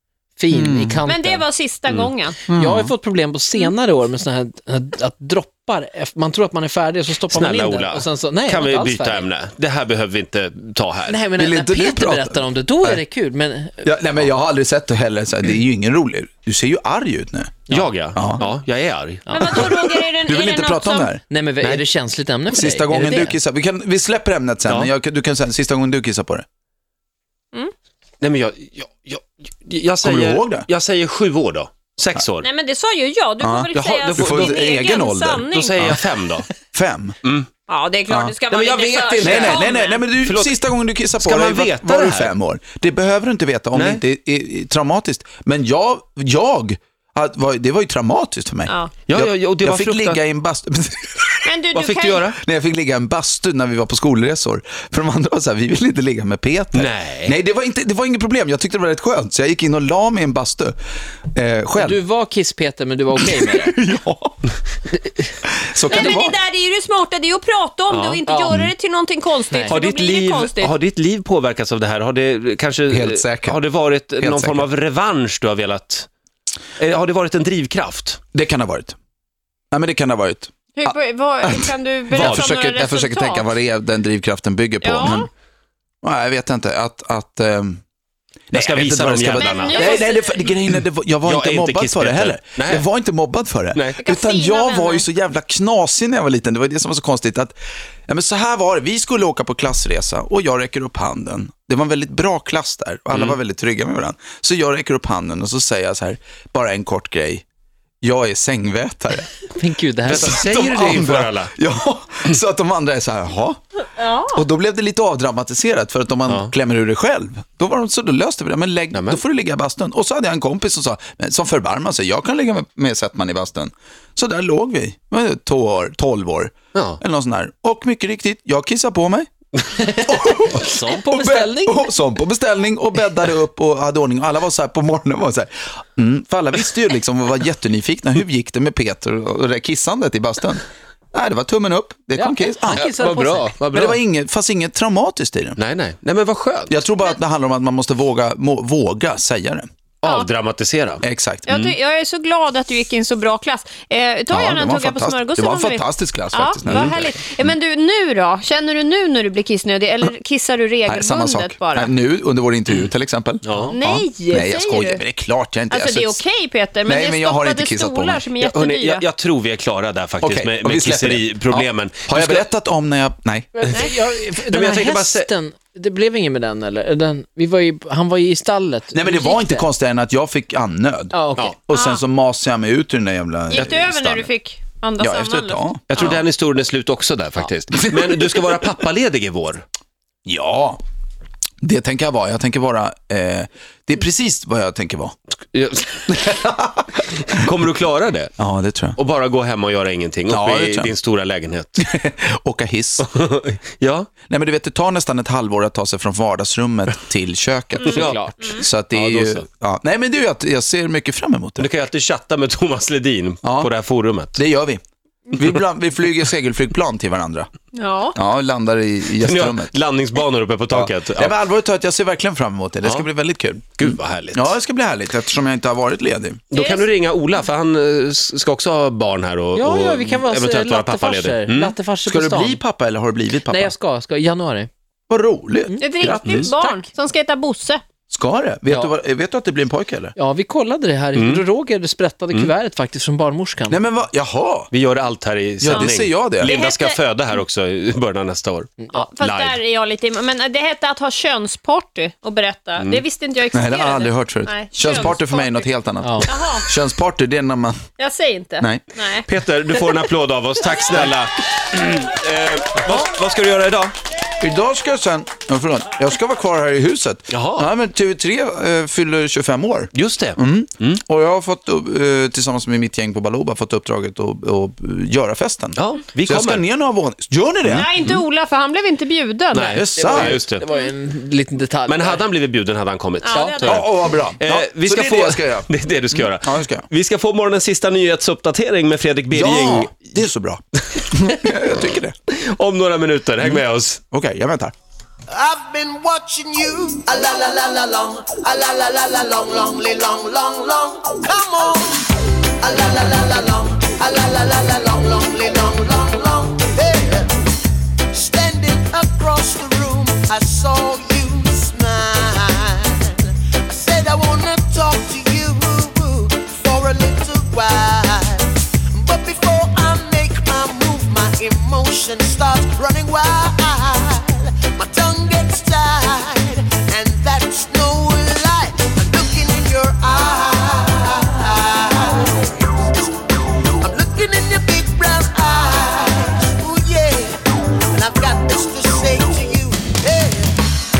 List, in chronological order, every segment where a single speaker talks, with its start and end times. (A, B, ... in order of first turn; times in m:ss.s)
0:00.4-0:01.4 A
0:00.5-0:01.0 B
0:01.0-0:02.4 C
0:02.5-0:02.9 B
0:02.5-0:09.2 A
0:07.3-0:11.2 D
0:11.1-0:13.9 A
0:11.3-0:13.0 B
0:13.8-0:18.5 B
0:17.7-0:19.7 D
0:19.3-0:19.6 A
0:19.3-0:21.2 C
0:19.4-0:21.2 B
0:21.3-0:23.4 A
0:22.5-0:26.4 B
0:28.2-0:32.5 D
0:30.0-0:30.7 B
0:32.4-0:35.8 C
0:33.4-0:36.0 B
0:34.1-0:34.7 D
0:35.5-0:36.4 D
0:36.7-0:37.2 B
0:37.7-0:40.1 C
0:38.1-0:38.4 B
0:38.5-0:40.6 D
0:39.2-1:00.8 B
0:41.2-0:42.3 D
0:43.7-0:44.0 D
0:48.6-0:49.0 C
0:49.0-0:50.2 D
0:51.4-0:52.2 C
0:51.7-0:52.4 D
0:56.7-0:57.4 D
1:01.3-1:02.0 B
1:01.8-1:03.8 A
1:03.2-1:04.4 B
1:05.6-1:06.4 B
1:05.8-1:10.7 C
1:07.9-1:08.5 D
1:08.3-1:08.5 A
1:09.7-1:16.1 D
1:12.9-1:13.6 B
1:14.2-1:14.6 B
1:16.8-1:18.2 D
1:18.3-1:19.0 B
1:19.7-1:25.3 B
1:20.7-1:23.5 C
1:22.2-1:22.5 D
1:24.8-1:25.3 C
1:26.0-1:27.8 B
1:28.5-1:47.4 B
1:28.5-1:30.1 D
1:29.4-1:30.5 C
1:31.2-1:32.8 D
1:33.7-1:34.0 D
1:34.0-1:35.0 C
1:43.1-1:43.4 D
1:48.0-1:49.3 B
1:49.6-1:50.4 A
1:50.1-1:51.5 D
1:50.1-2:09.3 B
1:54.0-1:54.4 C
1:58.9-1:59.2 D
2:09.8-2:11.8 A
2:09.9-2:22.9 B
2:22.1-2:23.6 A
2:22.8-2:24.0 D
2:23.7-2:25.6 B
2:25.6-2:26.8 D
2:26.7-2:29.7 B
2:30.0-2:31.8 D
2:30.0-2:30.3 C
2:31.0-2:31.5 B
2:31.5-2:42.0 C
2:34.3-2:37.1 B
2:36.6-2:37.0 D
2:40.8-2:46.2 B
2:43.4-2:43.7 D
2:43.7-2:45.0 C
2:45.7-2:49.0 C
2:46.8-2:48.3 B
2:48.4-2:52.4 D
2:50.2-2:53.6 B
2:53.6-2:59.7 A
2:54.4-2:55.3 D
2:58.9-3:04.3 B
3:01.1-3:01.5 A
3:01.7-3:02.0 C
3:03.5-3:06.2 C
3:05.0-3:06.2 B
3:05.9-3:09.6 D
3:07.9-3:08.2 B
3:10.2-3:10.8 B
3:11.6-3:15.1 B
3:15.5-3:16.2 D
3:16.1-3:17.4 B
3:17.3-3:18.3 D
3:18.4-3:19.0 B
3:19.0-3:21.8 D
3:20.3-3:20.9 B
3:21.8-3:23.1 B
3:23.0-3:24.1 D
3:24.3-3:31.7 B
3:27.9-3:29.4 D
3:27.9-3:28.6 A
3:31.6-3:34.4 D
3:33.4-3:33.7 B
3:34.3-3:34.8 B
3:35.3-3:37.5 B
3:37.7-3:38.2 C
3:38.1-3:39.7 B
3:39.2-3:41.3 D
3:40.7-3:46.4 B
3:43.8-3:44.5 D
3:46.5-3:51.7 D
3:46.5-3:46.9 C
3:49.6-3:52.6 A
3:52.0-3:53.7 B
3:53.5-3:54.7 A
3:55.1-3:56.5 B
3:55.8-3:57.8 C
3:56.0-3:56.5 D
3:58.1-4:00.1 B
4:00.2-4:03.8 A
4:01.1-4:01.4 D
4:03.7-4:04.7 B
4:04.7-4:09.6 D
4:05.6-4:06.5 B
4:06.4-4:07.0 C
4:08.9-4:15.7 C
4:12.8-4:13.0 D
4:13.5-4:17.9 B
4:16.0-4:16.3 A
4:16.2-4:16.7 C
4:18.0-4:19.2 C
4:18.6-4:18.8 B
4:19.3-4:23.9 D
4:24.4-4:37.9 B
4:27.3-4:27.7 D
4:29.9-4:31.0 D
4:35.8-4:36.6 D
4:37.7-4:38.2 D
4:37.7-4:39.8 C
4:39.5-4:40.6 D
4:39.7-4:40.4 B
4:40.0-4:42.2 A
4:41.9-4:50.0 D
4:43.2-4:44.0 C
4:43.3-4:43.6 A
4:43.6-4:46.9 B
4:49.3-4:52.2 B
4:52.3-4:54.0 D
4:53.4-4:54.7 B
4:55.3-5:02.1 E
5:02.6-5:07.3 E
5:08.1-5:32.9 E
5:33.8-5:40.6 E